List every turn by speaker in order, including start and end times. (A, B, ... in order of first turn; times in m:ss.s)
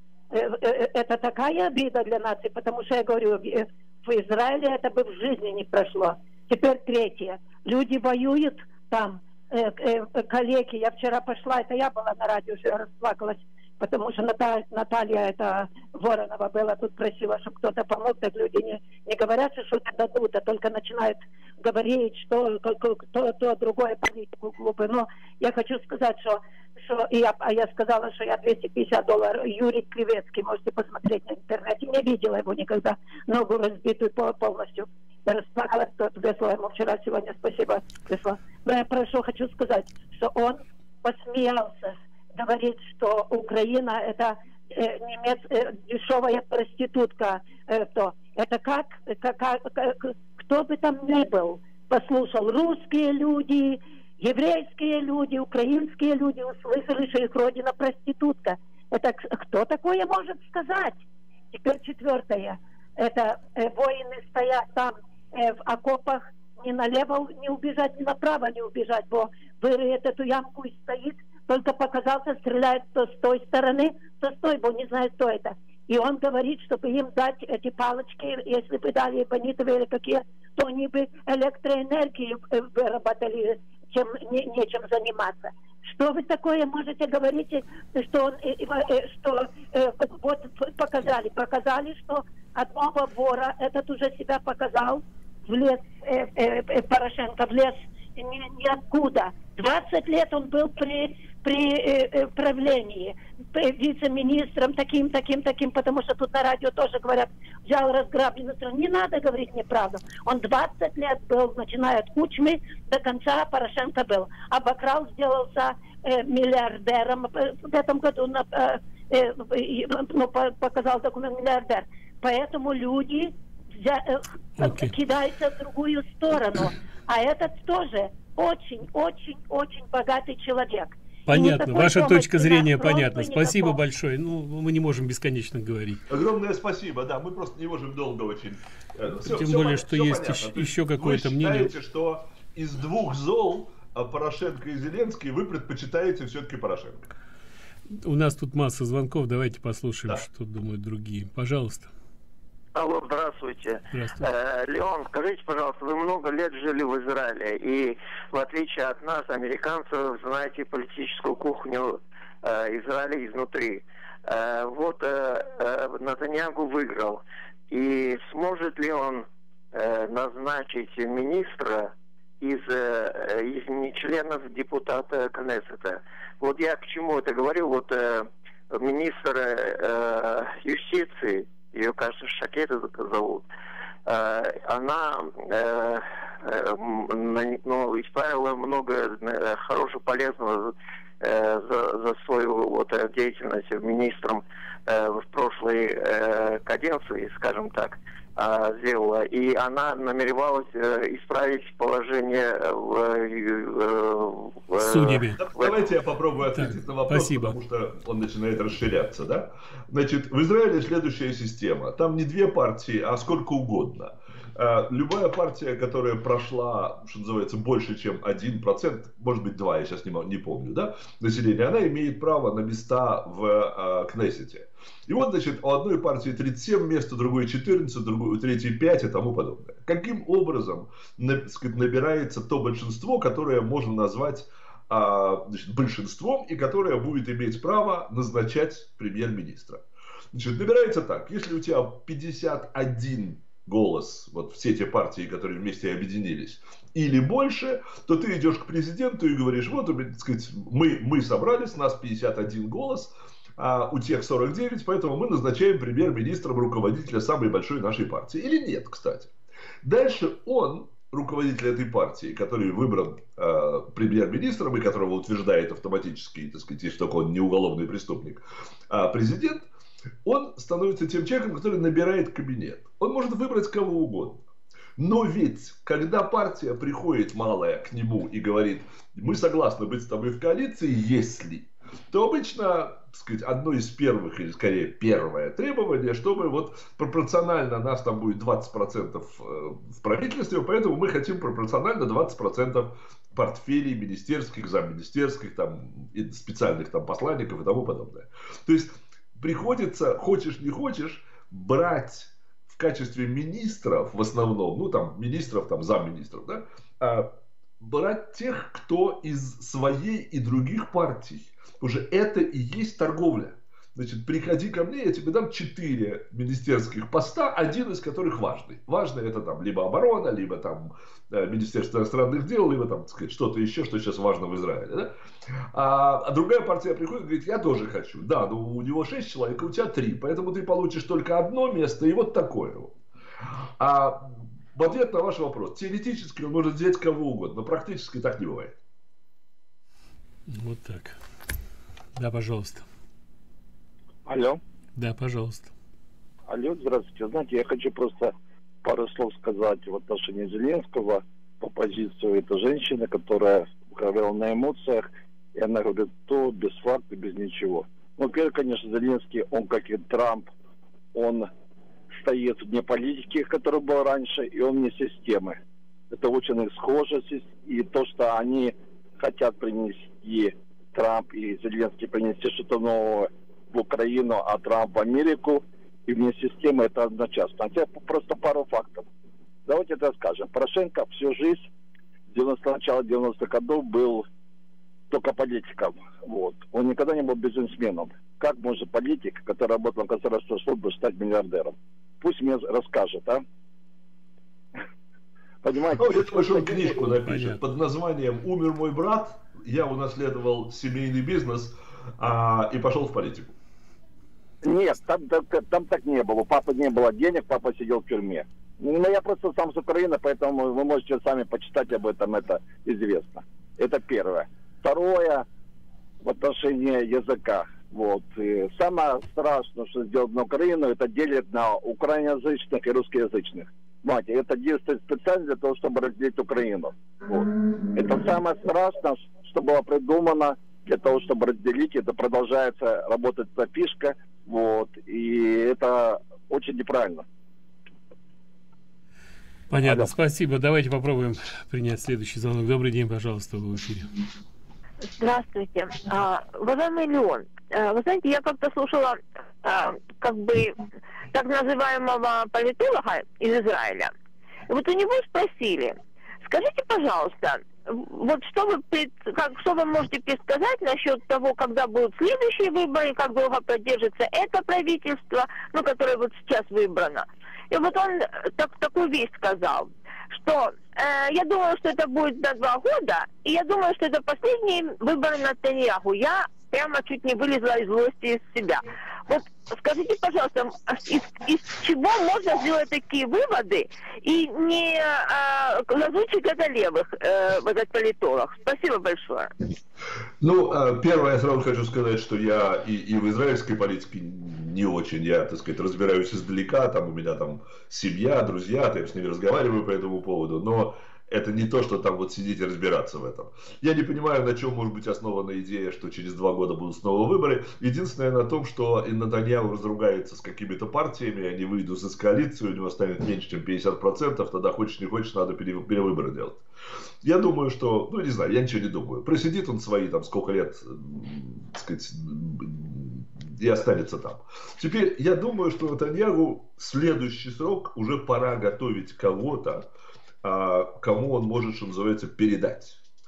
0:00.3-2:13.8 A
2:04.6-2:04.9 B
2:11.3-2:16.0 B
2:16.1-2:27.1 C
2:19.2-2:21.7 B
2:27.9-2:31.9 B
2:32.8-3:03.5 D
2:33.9-2:34.3 B
3:04.1-3:25.8 D
3:24.8-3:25.4 B
3:25.4-3:59.8 C
3:26.6-3:27.6 B
4:00.3-4:29.7 C
4:30.2-4:34.4 C
4:35.0-5:33.0 C
5:33.8-5:38.8 C
5:40.5-5:41.2 B
5:42.2-5:42.8 B
5:44.3-5:44.6 E
5:45.0-5:45.7 B
5:46.5-5:48.3 E
5:48.8-6:00.5 E
6:01.1-6:01.5 E
6:02.1-6:05.6 E
6:06.1-6:19.1 E
6:19.7-6:21.7 E
6:22.3-6:24.3 E
6:25.1-6:33.4 E
6:35.6-6:37.0 E
6:36.0-6:43.6 C
6:37.3-6:37.6 B
6:44.6-6:55.4 E
6:56.2-7:17.2 E
7:19.7-7:24.1 B
7:19.8-7:20.1 E
7:25.0-7:30.8 F
7:31.3-7:34.1 F
7:34.7-8:09.5 F
8:10.4-8:36.6 C
8:37.2-8:49.9 C
8:50.4-8:53.0 C